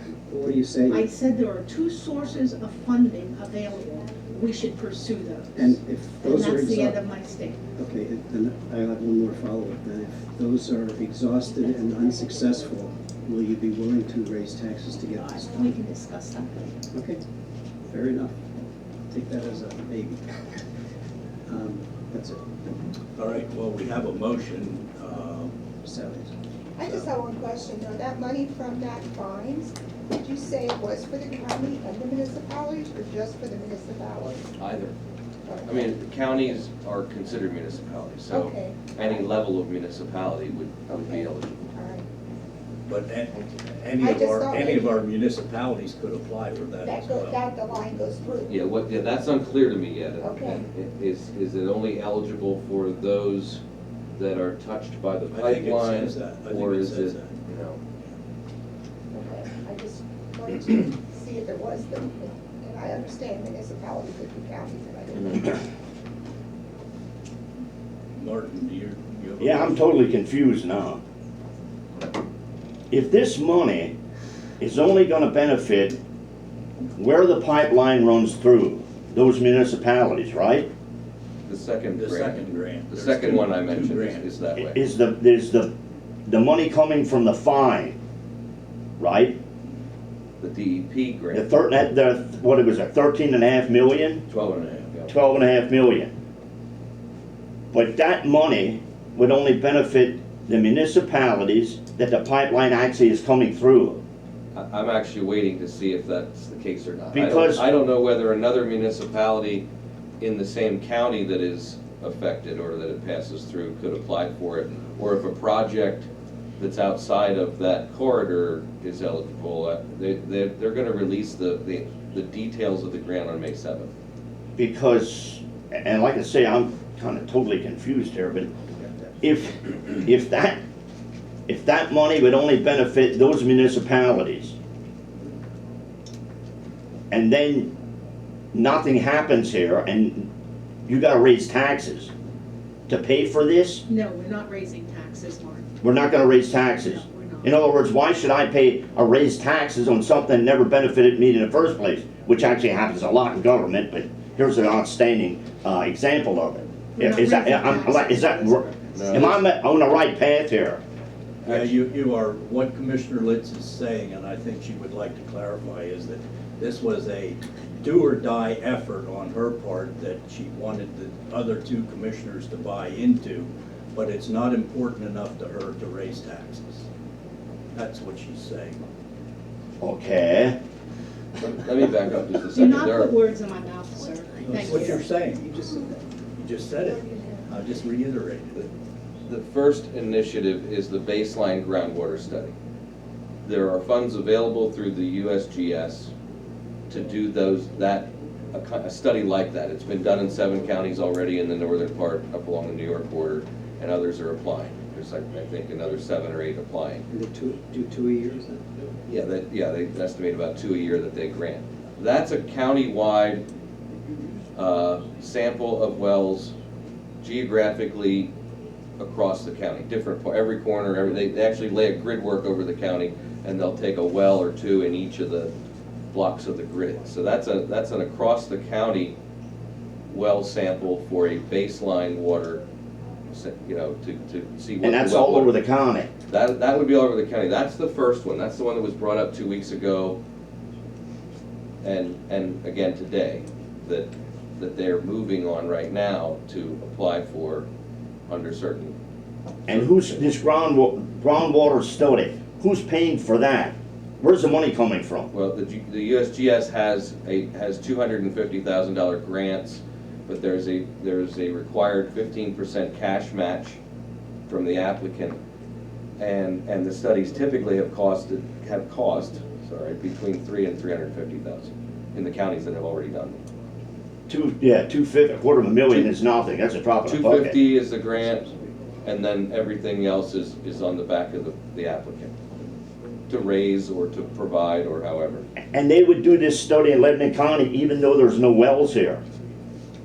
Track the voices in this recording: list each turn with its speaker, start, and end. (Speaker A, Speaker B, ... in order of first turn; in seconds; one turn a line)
Speaker A: 0.3-1.1
Speaker B: 0.9-7.6
Speaker A: 5.5-7.0
Speaker A: 7.8-15.7
Speaker B: 15.2-16.7
Speaker A: 16.9-17.2
Speaker A: 17.9-18.4
Speaker A: 19.1-20.6
Speaker A: 21.5-22.6
Speaker C: 23.2-25.6
Speaker A: 25.8-26.3
Speaker D: 26.8-34.4
Speaker E: 34.6-35.0
Speaker D: 35.5-36.0
Speaker E: 35.6-41.7
Speaker D: 38.3-39.3
Speaker D: 41.1-42.1
Speaker C: 42.9-47.4
Speaker D: 43.3-45.0
Speaker D: 46.8-48.6
Speaker E: 48.5-53.6
Speaker D: 50.2-50.6
Speaker E: 54.2-57.8
Speaker C: 55.3-57.4
Speaker D: 59.1-65.7
Speaker C: 68.2-69.8
Speaker F: 69.4-71.0
Speaker F: 72.9-74.0
Speaker F: 74.6-76.0
Speaker F: 77.0-80.7
Speaker E: 81.5-84.8
Speaker C: 81.9-84.3
Speaker F: 84.6-85.7
Speaker F: 86.3-88.0
Speaker F: 89.0-89.4
Speaker E: 90.4-91.5
Speaker F: 91.3-94.2
Speaker E: 94.3-95.1
Speaker F: 95.1-96.1
Speaker F: 97.7-104.0
Speaker E: 104.5-109.7
Speaker F: 107.1-107.7
Speaker E: 110.2-123.9
Speaker F: 124.6-128.5
Speaker A: 128.8-129.2
Speaker F: 129.2-130.6
Speaker F: 131.5-134.6
Speaker F: 137.1-137.7
Speaker F: 138.5-140.3
Speaker F: 140.9-142.1
Speaker F: 142.9-143.8
Speaker B: 143.9-145.7
Speaker F: 145.8-160.8
Speaker B: 146.8-147.6
Speaker B: 156.9-159.4
Speaker E: 158.9-159.3
Speaker E: 161.4-161.7
Speaker C: 161.5-176.8
Speaker C: 177.7-178.8
Speaker F: 179.8-180.6
Speaker E: 181.4-183.2
Speaker B: 182.5-185.1
Speaker A: 184.4-186.0
Speaker C: 184.4-185.6
Speaker C: 186.3-188.7
Speaker D: 187.1-187.4
Speaker E: 189.2-192.5
Speaker E: 193.4-196.1
Speaker E: 196.9-207.1
Speaker A: 207.1-208.6
Speaker E: 209.1-213.5
Speaker E: 214.6-216.6
Speaker E: 217.2-218.3
Speaker E: 219.0-225.5
Speaker E: 226.1-229.2
Speaker E: 230.1-232.6
Speaker E: 233.3-235.6
Speaker F: 234.8-236.1
Speaker E: 236.3-240.2
Speaker E: 241.8-247.7
Speaker E: 248.3-248.9
Speaker E: 249.7-250.2
Speaker F: 249.7-255.3
Speaker E: 255.3-263.8
Speaker E: 264.5-265.4
Speaker E: 266.2-273.4
Speaker F: 274.3-277.6
Speaker E: 277.1-282.4
Speaker E: 283.3-285.5
Speaker F: 285.7-289.2